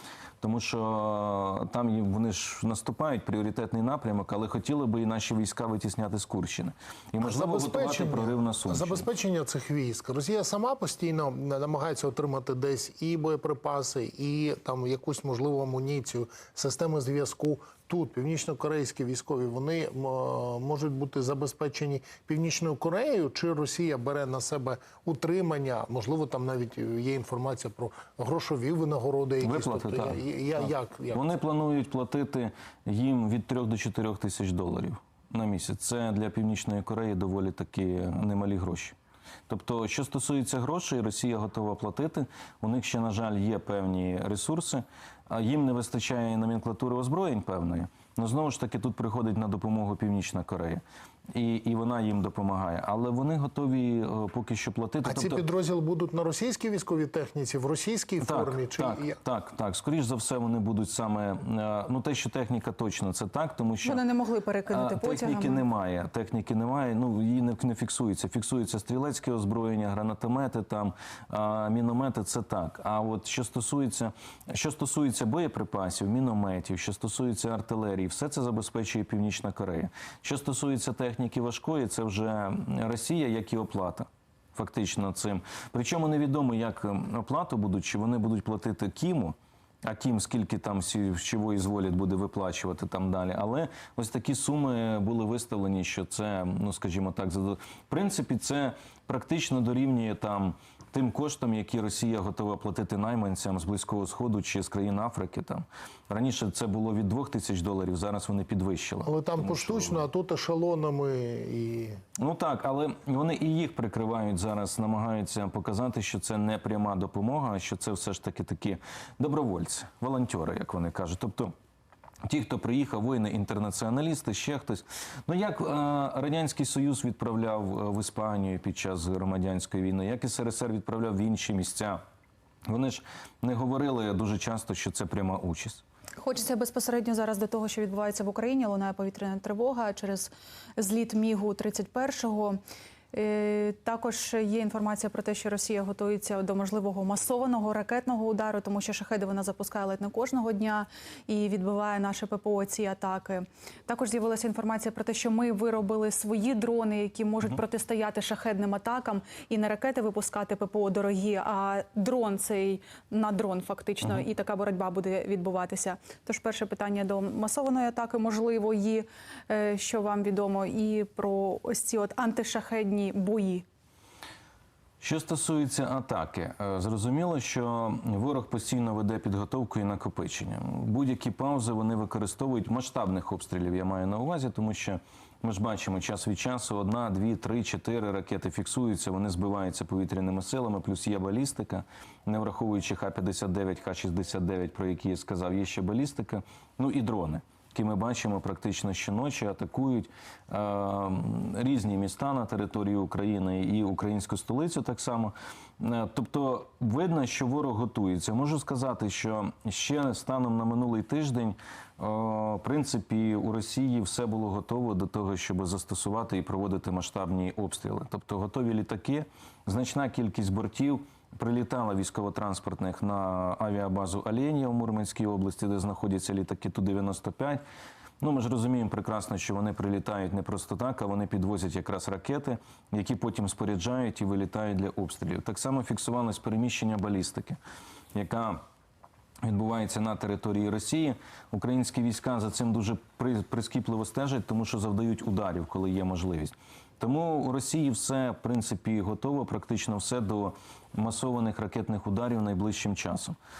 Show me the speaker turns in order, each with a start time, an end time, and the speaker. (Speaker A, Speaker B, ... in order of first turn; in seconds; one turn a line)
Speaker A: 0.4-9.1
Speaker B: 7.2-31.3
Speaker A: 29.4-39.0
Speaker A: 39.5-50.8
Speaker A: 51.3-55.4
Speaker B: 55.0-59.2
Speaker A: 58.2-64.0
Speaker C: 63.8-65.6
Speaker A: 64.7-110.1
Speaker B: 109.0-112.0
Speaker A: 112.2-121.5
Speaker A: 122.3-132.0
Speaker A: 132.7-135.8
Speaker C: 136.2-142.6
Speaker C: 143.1-173.6
Speaker A: 175.0-227.6
Speaker A: 228.2-237.6
Speaker A: 238.1-238.6
Speaker A: 239.4-253.3